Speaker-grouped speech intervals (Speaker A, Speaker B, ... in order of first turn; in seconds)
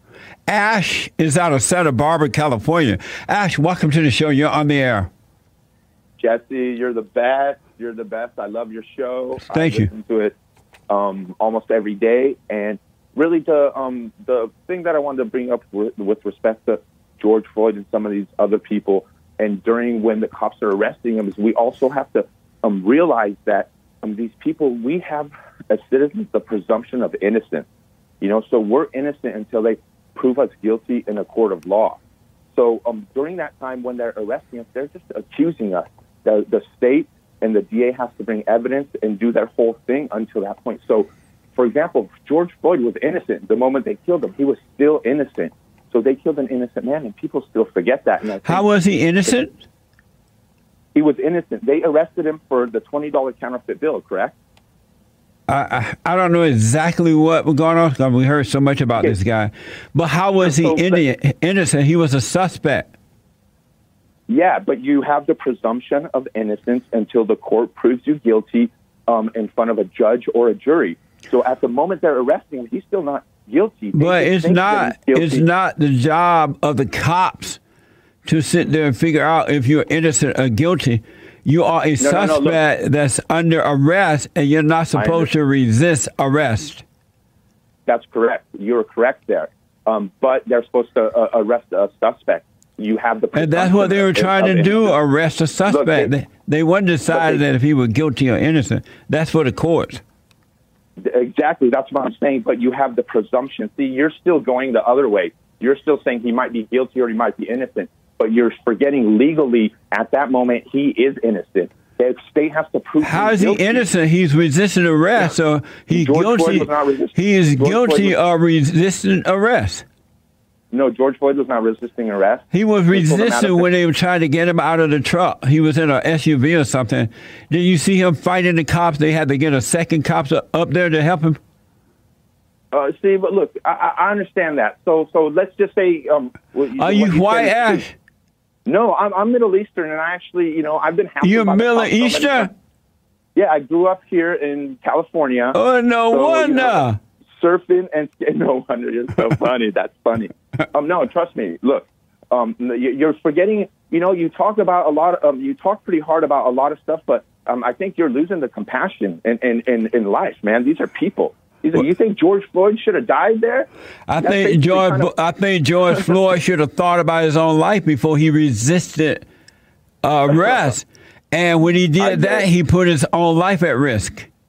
Speaker A: 0.5-5.1, 9.5-9.9, 48.4-49.5, 55.5-62.9, 73.9-77.6, 78.2-86.8, 93.3-100.0, 113.0-119.8, 122.5-131.4, 136.8-137.9, 141.2-142.5, 145.5-147.0, 164.1-169.2, 170.0-174.3
Speaker B: 6.2-10.3, 10.9-27.7, 28.2-32.0, 32.5-48.6, 50.9-54.3, 60.4-61.0, 64.3-75.5, 82.0-82.6, 84.9-85.3, 87.9-95.0, 95.6-96.1, 97.1-97.4, 101.0-113.9, 115.9-118.2, 120.7-123.7, 132.7-137.8, 138.7-142.5, 143.3-145.6, 146.1-165.1, 172.0-172.5